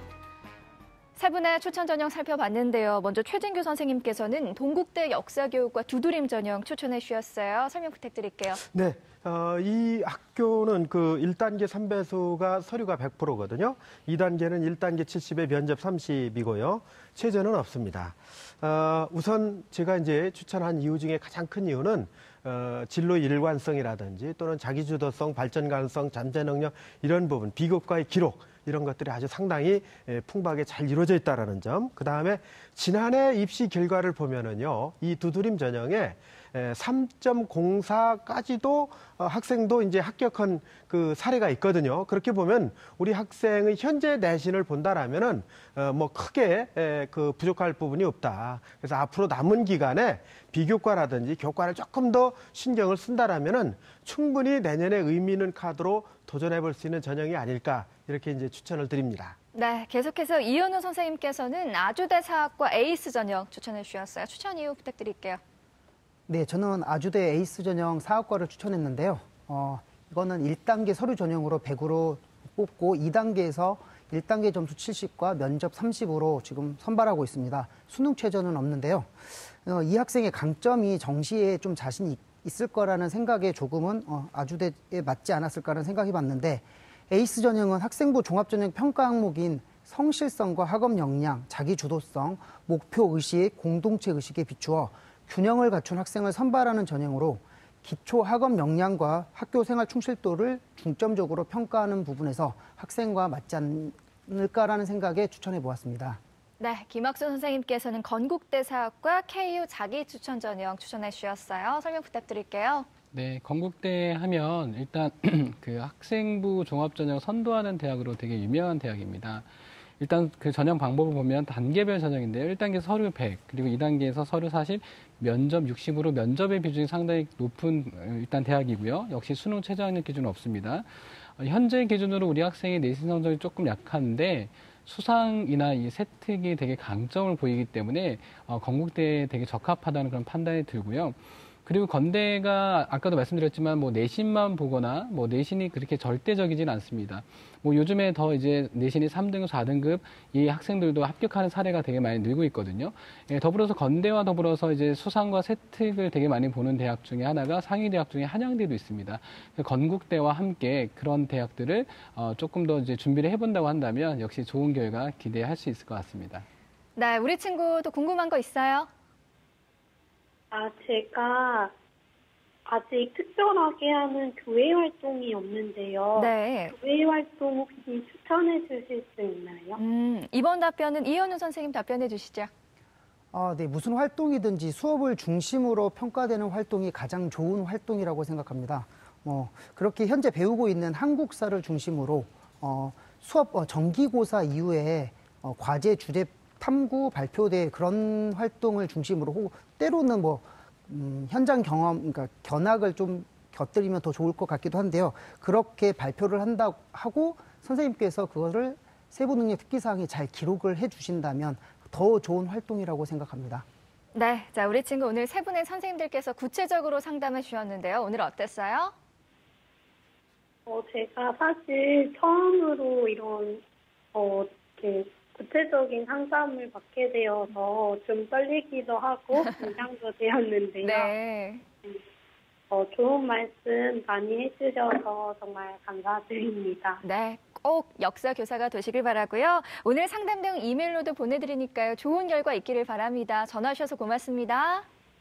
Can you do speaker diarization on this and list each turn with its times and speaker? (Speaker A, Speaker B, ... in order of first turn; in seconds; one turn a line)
Speaker A: 1.2-8.6
Speaker B: 8.7-59.4
Speaker A: 59.5-65.4
Speaker C: 66.3-106.2
Speaker A: 106.6-112.9
Speaker D: 113.1-119.4
Speaker D: 120.0-166.4
Speaker A: 167.0-168.9
Speaker E: 170.5-171.7
Speaker E: 172.7-179.8
Speaker A: 176.1-176.7
Speaker A: 179.8-182.5
Speaker C: 183.3-213.6
Speaker A: 214.1-218.9
Speaker E: 220.7-223.6
Speaker E: 224.1-231.1
Speaker A: 230.8-231.6
Speaker E: 232.7-237.0
Speaker A: 237.0-244.8